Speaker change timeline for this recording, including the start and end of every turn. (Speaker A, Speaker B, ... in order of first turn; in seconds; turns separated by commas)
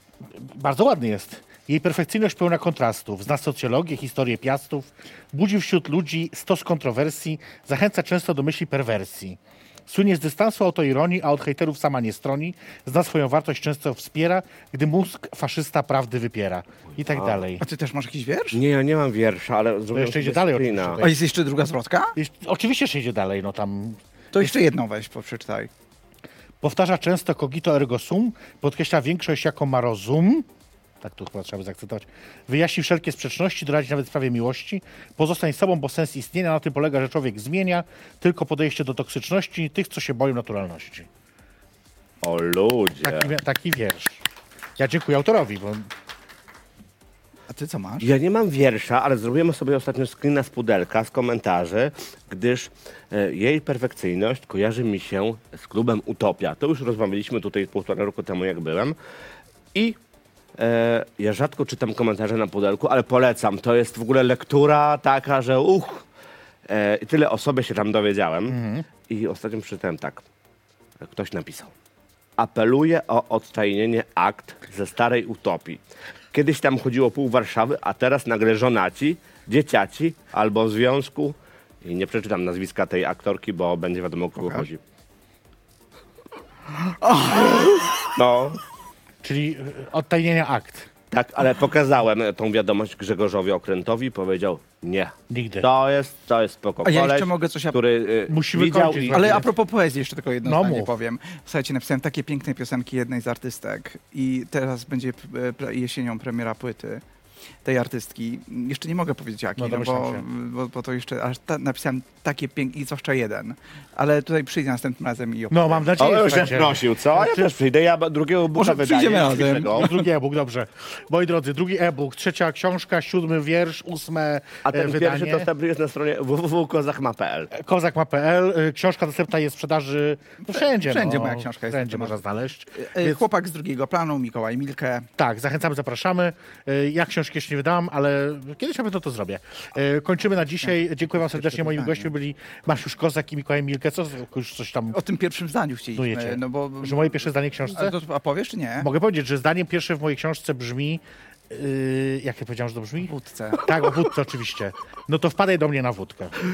Speaker A: 0.3-17.6, Speaker B: 17.1-17.4, Speaker C: 17.6-18.6, Speaker B: 18.5-21.0, Speaker A: 19.9-21.2, Speaker C: 21.0-22.1, Speaker A: 22.1-24.5, Speaker C: 24.3-25.7, Speaker A: 26.6-30.4, Speaker A: 31.0-41.1, Speaker B: 42.2-43.3, Speaker A: 43.0-44.2, Speaker A: 44.8-45.9, Speaker C: 47.5-48.1, Speaker B: 48.0-58.9, Speaker B: 60.6-66.0, Speaker B: 66.7-68.6, Speaker A: 68.5-68.9, Speaker B: 69.1-70.2, Speaker B: 71.0-71.7, Speaker B: 72.4-75.8, Speaker B: 76.3-84.8, Speaker C: 84.4-84.7, Speaker C: 86.7-88.1, Speaker B: 87.5-88.6, Speaker A: 89.2-90.9, Speaker B: 91.1-99.4, Speaker A: 95.3-95.7, Speaker C: 96.8-97.8, Speaker A: 98.3-99.5, Speaker C: 99.1-107.0, Speaker A: 100.4-100.9, Speaker C: 107.6-115.8, Speaker A: 109.6-110.2, Speaker A: 115.5-117.5, Speaker B: 116.0-120.0, Speaker C: 118.5-119.9, Speaker A: 119.7-125.5, Speaker B: 124.6-127.5, Speaker A: 127.5-133.2, Speaker C: 130.4-132.2, Speaker C: 132.7-135.1, Speaker A: 135.2-145.0, Speaker C: 140.6-142.1, Speaker C: 144.9-147.1, Speaker A: 145.9-147.9, Speaker C: 147.7-148.9, Speaker A: 148.8-156.3, Speaker C: 153.1-153.7